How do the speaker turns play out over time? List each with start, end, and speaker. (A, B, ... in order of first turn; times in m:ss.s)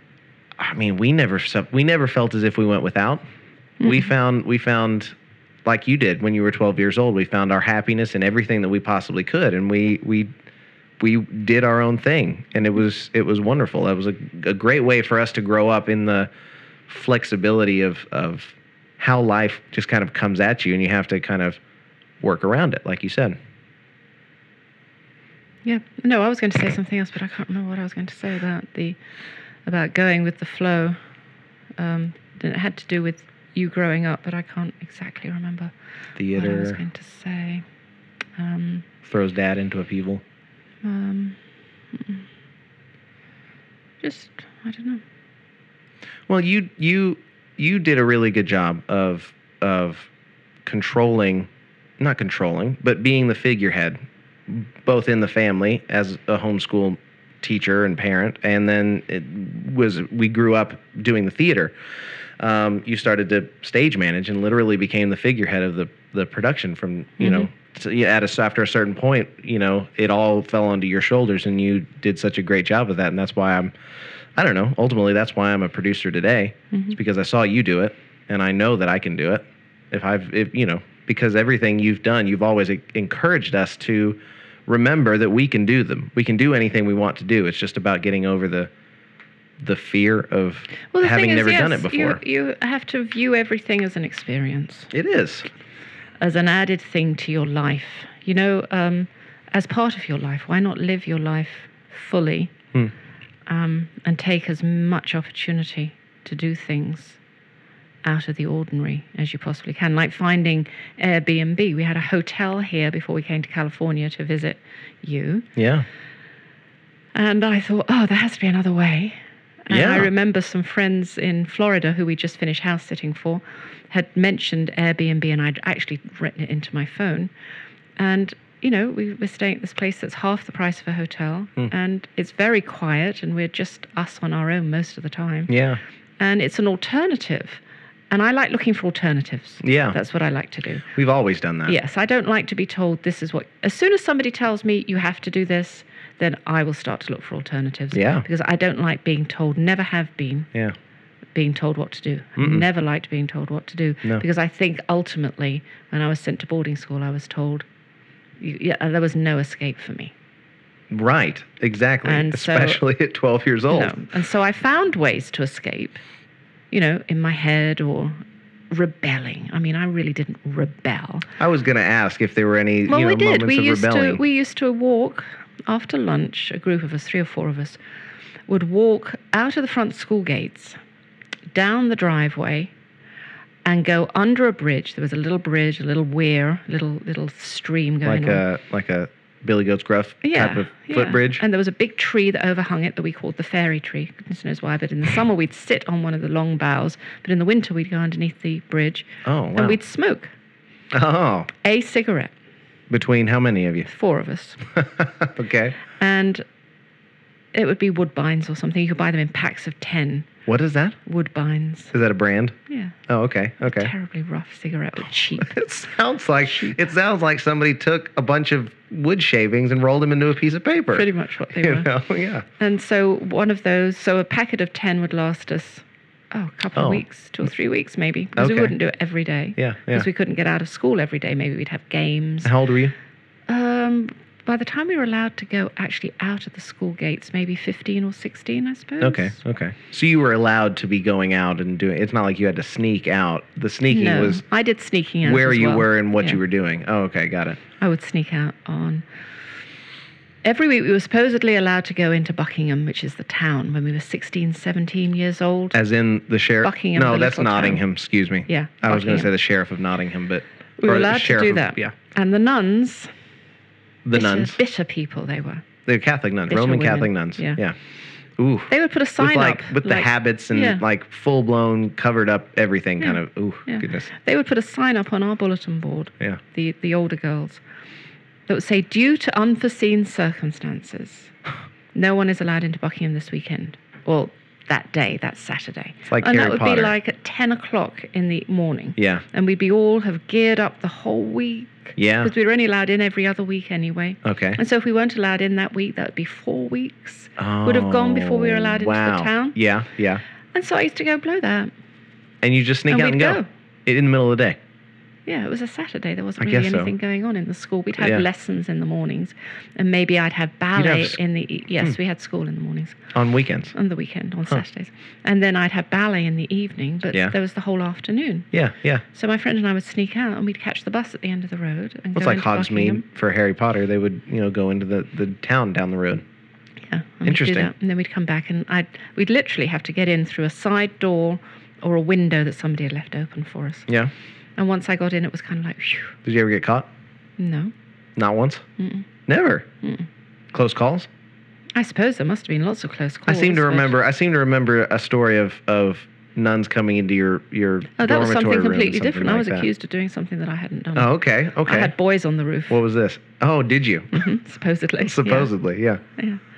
0:00.6-0:03.2 A
0:03.8-0:04.1 B
0:03.8-0:10.3 A
0:11.0-0:16.3 A
0:16.9-0:21.6 A
0:22.2-0:23.4 A
0:25.6-0:29.0 B
0:29.6-0:31.0 B
0:31.8-0:35.7 B
0:36.2-0:36.8 A
0:36.3-0:37.6 B
0:38.4-0:38.8 B
0:39.0-0:40.2 A
0:40.8-0:41.4 B
0:41.9-0:42.2 B
0:44.0-0:45.0 B
0:46.3-0:50.1 A
0:50.6-1:01.7 A
1:02.4-1:13.7 A
1:07.2-1:07.5 B
1:14.4-1:28.7 A
1:29.6-1:32.2 A
1:30.9-1:34.9 B
1:34.9-1:35.5 A
1:36.2-1:42.6 B
1:43.5-1:47.2 B
1:48.0-1:55.5 B
1:55.6-1:55.8 A
1:57.1-2:07.3 B
1:59.7-2:00.1 A
2:08.0-2:15.5 B
2:15.5-2:15.8 A
2:16.2-2:20.8 B
2:19.6-2:20.0 A
2:20.9-2:21.8 A
2:21.6-2:30.5 B
2:27.9-2:28.2 A
2:31.3-2:37.6 B
2:32.4-2:32.6 A
2:38.4-2:40.1 B
2:40.9-2:43.9 A
2:42.0-2:42.8 B
2:43.7-2:46.0 B
2:46.7-2:48.2 B
2:48.7-2:51.3 B
2:51.4-2:54.2 A
2:52.9-2:57.8 B
2:58.5-3:00.8 B
3:01.5-3:02.7 B
3:03.6-3:08.4 B
3:08.0-3:11.4 A
3:10.2-3:20.3 B
3:19.2-3:19.8 A
3:20.9-3:21.5 A
3:21.6-3:22.3 B
3:22.9-3:23.9 A
3:23.8-3:24.6 B
3:24.7-3:25.8 A
3:26.0-3:26.4 B
3:27.5-3:30.3 B
3:30.5-3:31.0 A
3:31.0-3:31.9 B
3:31.9-3:32.6 A
3:32.7-3:33.0 B
3:33.1-3:33.9 A
3:33.6-3:35.6 B
3:35.4-3:42.4 A
3:40.9-3:41.9 B
3:42.6-3:52.5 B
3:46.7-3:47.0 A
3:48.4-3:48.7 A
3:49.6-3:50.1 A
3:52.4-3:52.9 A
3:53.5-3:59.4 B
3:59.0-4:04.4 A
4:03.9-4:06.4 B
4:05.2-4:07.6 A
4:07.8-4:09.0 B
4:10.4-4:15.8 B
4:15.7-4:21.9 A
4:16.6-4:17.8 B
4:18.5-4:19.3 B
4:20.8-4:23.1 B
4:24.0-4:24.6 A
4:24.1-4:25.6 B
4:25.8-4:27.8 A
4:26.5-4:27.6 B
4:28.4-4:34.1 A
4:28.7-4:30.8 B
4:33.0-4:37.6 B
4:38.5-4:41.3 B
4:41.9-4:59.6 B
4:46.1-4:46.9 A
4:49.0-4:49.2 A
4:52.0-4:52.3 A
4:54.2-4:54.6 A
4:57.4-5:00.2 A
5:00.5-5:01.7 B
5:02.4-5:04.6 A
5:02.9-5:03.5 B
5:05.2-5:13.1 B
5:06.4-5:06.9 A
5:08.0-5:08.2 A
5:10.7-5:11.2 A
5:13.1-5:13.7 A
5:13.7-5:18.5 B
5:18.5-5:19.0 A
5:19.1-5:23.0 B
5:22.1-5:26.2 A
5:26.9-5:33.9 B
5:27.2-5:27.7 A
5:34.6-5:36.2 B
5:36.2-5:36.9 A
5:37.4-5:37.7 B
5:38.2-5:38.6 A
5:38.8-5:39.0 B
5:39.3-5:39.7 A
5:40.5-5:41.1 A
5:41.7-5:44.0 B
5:43.2-5:49.7 A
5:48.0-5:51.1 B
5:50.9-5:51.9 A
5:51.6-5:52.8 B
5:52.7-5:54.3 A
5:54.1-5:55.5 B
5:55.0-5:56.0 A